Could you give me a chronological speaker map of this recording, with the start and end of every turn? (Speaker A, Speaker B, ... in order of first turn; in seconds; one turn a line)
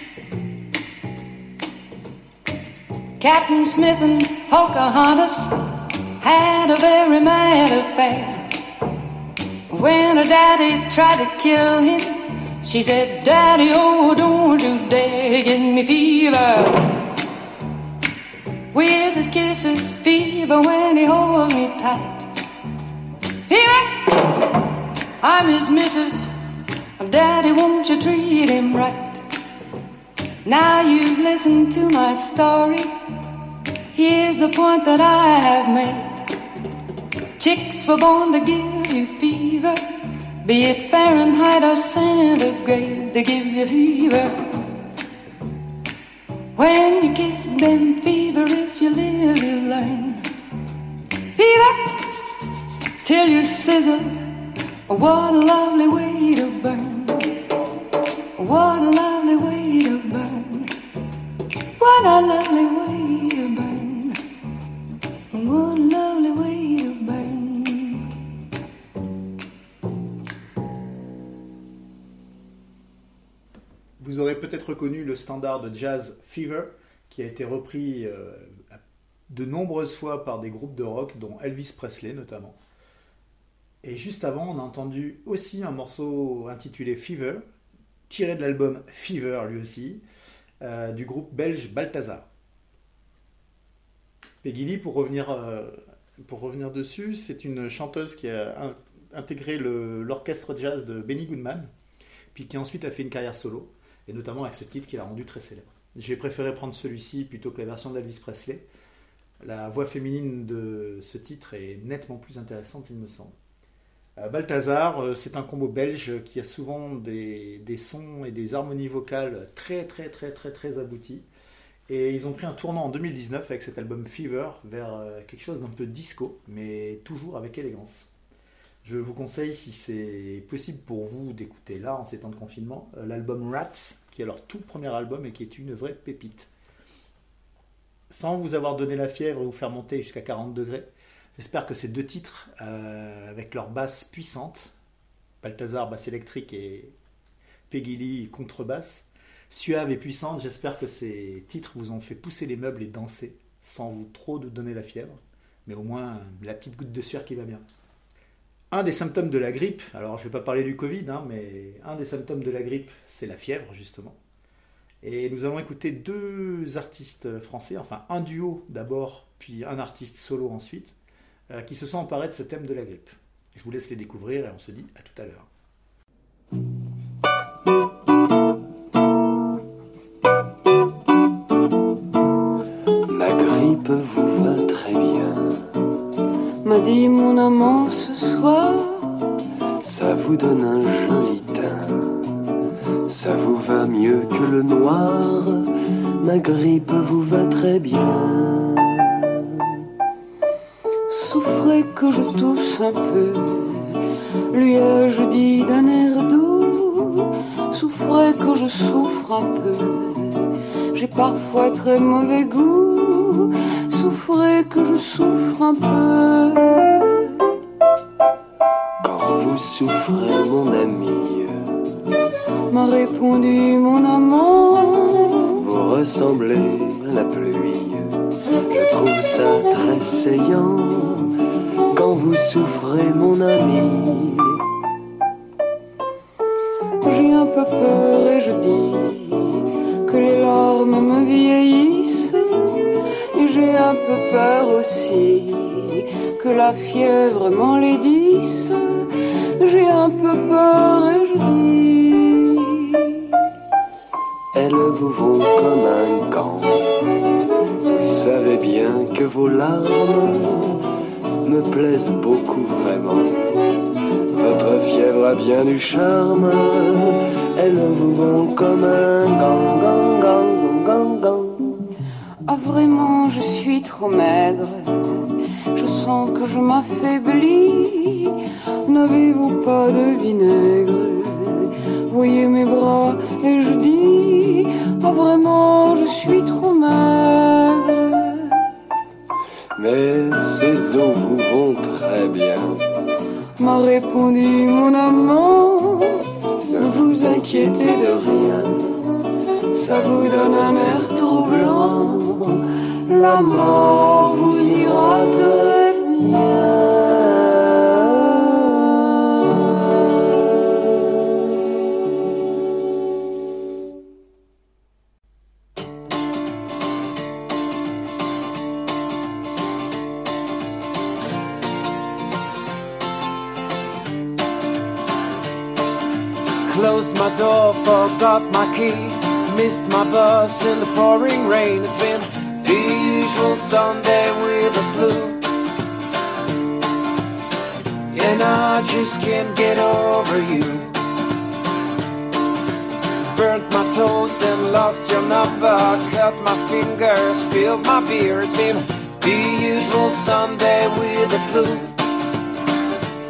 Speaker A: 3.2-8.6
Speaker A: 9.7-17.1
Speaker A: 18.7-22.3
Speaker A: 23.5-24.5
Speaker A: 25.2-26.3
Speaker A: 27.0-29.2
Speaker A: 30.4-32.9
Speaker A: 33.9-36.3
Speaker A: 37.4-39.8
Speaker A: 40.4-44.4
Speaker A: 46.5-50.3
Speaker A: 51.4-52.1
Speaker A: 53.0-57.4
Speaker A: 58.4-60.7
Speaker A: 61.8-64.2
Speaker A: 65.3-68.1
Speaker B: 74.0-82.6
Speaker B: 83.8-87.4
Speaker B: 88.1-90.0
Speaker B: 90.6-92.3
Speaker B: 94.4-101.7
Speaker B: 102.3-108.6
Speaker B: 109.4-113.3
Speaker B: 114.2-121.2
Speaker B: 121.9-128.1
Speaker B: 128.8-136.5
Speaker B: 138.1-144.7
Speaker B: 145.4-146.9
Speaker B: 147.7-157.6
Speaker B: 158.7-164.2
Speaker B: 165.0-170.9
Speaker B: 171.5-175.5
Speaker C: 183.1-185.6
Speaker D: 186.6-189.3
Speaker C: 189.8-192.2
Speaker C: 193.1-199.2
Speaker D: 201.1-203.9
Speaker D: 204.5-210.4
Speaker D: 210.9-217.4
Speaker C: 219.0-221.6
Speaker D: 222.7-225.5
Speaker C: 225.6-228.1
Speaker C: 228.7-231.3
Speaker C: 231.9-234.6
Speaker D: 237.0-249.1
Speaker D: 249.6-253.2
Speaker C: 254.5-256.8
Speaker C: 257.9-260.8
Speaker C: 261.4-263.4
Speaker C: 264.3-271.7
Speaker D: 272.5-275.2
Speaker D: 275.7-288.6
Speaker C: 289.8-292.8
Speaker D: 293.6-296.2
Speaker C: 296.7-298.9
Speaker D: 296.8-298.1
Speaker D: 299.7-302.4
Speaker C: 300.3-300.9
Speaker C: 301.8-302.1
Speaker D: 303.1-306.7
Speaker C: 304.5-305.5
Speaker E: 326.6-335.4
Speaker E: 338.1-340.9
Speaker E: 343.2-352.0